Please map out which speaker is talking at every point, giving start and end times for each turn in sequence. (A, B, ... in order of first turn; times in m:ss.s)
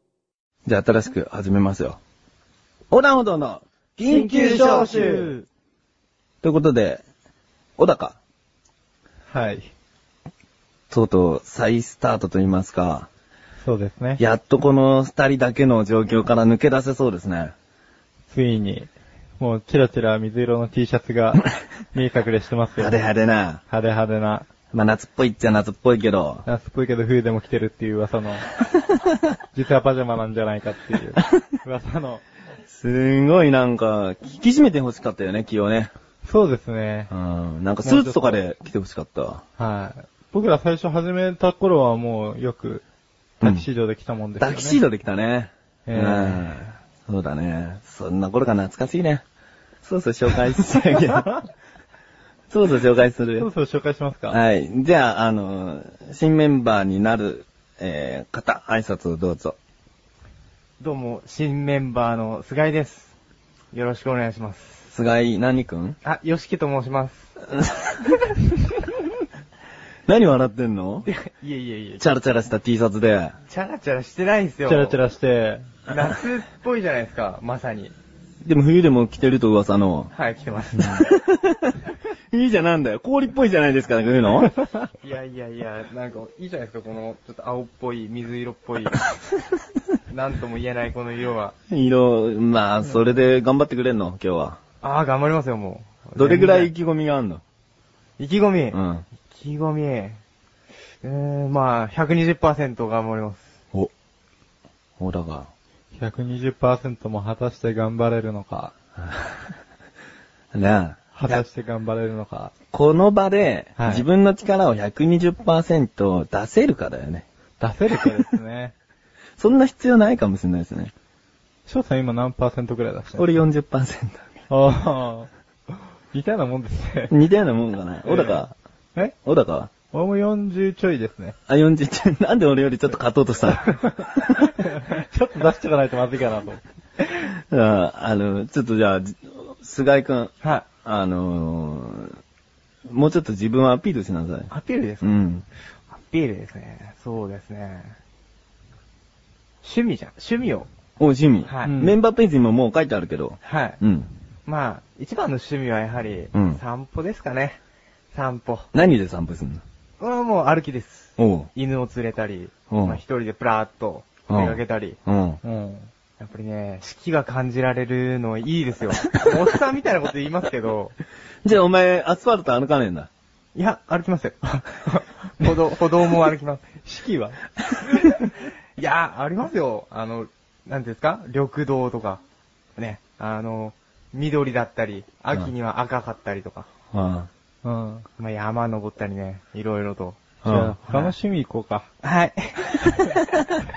0:00.6-0:02.0 A
0:02.9-0:05.2 A
0:04.0-0:05.5 B
0:04.3-0:05.3 C
0:06.4-0:07.0 A
0:07.8-0:08.2 A
0:09.3-0:09.7 C
0:10.9-0:13.1 A
0:13.6-0:14.2 C
0:14.2-0:17.5 A
0:18.3-0:23.0 C
0:22.8-0:23.6 A
0:23.7-0:24.5 C
0:24.7-0:26.4 A
0:26.4-0:28.5 C
0:29.5-0:32.2 C
0:32.7-0:35.9 A
0:36.2-0:37.1 C
0:37.1-0:39.4 A
0:37.8-0:38.4 C
0:39.6-0:42.8 C
0:43.4-0:44.8 C
0:44.4-0:49.2 A
0:45.8-0:46.7 C
0:49.8-0:51.4 A
0:52.5-0:53.5 A
0:53.4-0:54.4 C
0:54.3-0:59.6 A
1:00.8-1:03.1 B
1:03.7-1:04.8 B
1:04.9-1:06.0 A
1:06.0-1:07.3 B
1:07.6-1:08.0 A
1:10.1-1:11.1 A
1:11.0-1:12.0 B
1:12.0-1:13.4 A
1:13.5-1:15.0 B
1:14.6-1:15.8 C
1:15.9-1:17.9 B
1:18.4-1:20.1 A
1:20.1-1:21.1 B
1:20.8-1:24.5 A
1:25.0-1:29.1 B
1:30.1-1:31.5 B
1:31.7-1:34.6 A
1:34.8-1:36.7 B
1:36.2-1:37.4 A
1:38.2-1:38.8 B
1:38.7-1:39.0 A
1:39.3-1:40.2 B
1:41.0-1:43.5 B
1:45.0-1:45.5 A
1:45.9-1:48.7 C
1:50.5-1:51.4 A
1:51.1-1:52.5 C
1:52.7-1:57.2 A
1:53.8-1:54.0 B
1:57.6-1:58.7 C
1:59.4-2:00.9 A
2:01.6-2:03.3 C
2:03.1-2:04.3 A
2:04.5-2:05.3 C
2:06.1-2:07.1 C
2:07.1-2:08.5 A
2:08.0-2:08.4 C
2:09.1-2:09.7 A
2:09.9-2:11.4 C
2:11.5-2:14.6 A
2:14.6-2:16.6 C
2:17.0-2:20.3 A
2:20.4-2:20.7 B
2:20.8-2:22.2 A
2:22.9-2:25.4 A
2:24.5-2:25.2 B
2:25.9-2:28.0 B
2:29.6-2:30.7 B
2:31.0-2:34.1 A
2:31.4-2:31.8 B
2:31.6-2:32.0 C
2:33.4-2:33.8 B
2:34.4-2:37.6 B
2:36.3-2:36.6 A
2:38.1-2:38.7 B
2:38.7-2:39.6 A
2:40.0-2:45.0 B
2:41.2-2:41.5 A
2:42.7-2:43.0 A
2:44.3-2:45.4 A
2:45.4-2:45.9 C
2:46.2-2:51.0 B
2:51.4-2:53.1 A
2:53.5-2:56.8 B
2:56.8-2:57.4 C
2:58.8-3:02.2 B
3:02.8-3:06.7 B
3:06.9-3:07.3 A
3:07.6-3:08.0 C
3:08.2-3:11.1 B
3:10.4-3:11.8 C
3:10.4-3:10.7 A
3:12.0-3:13.2 B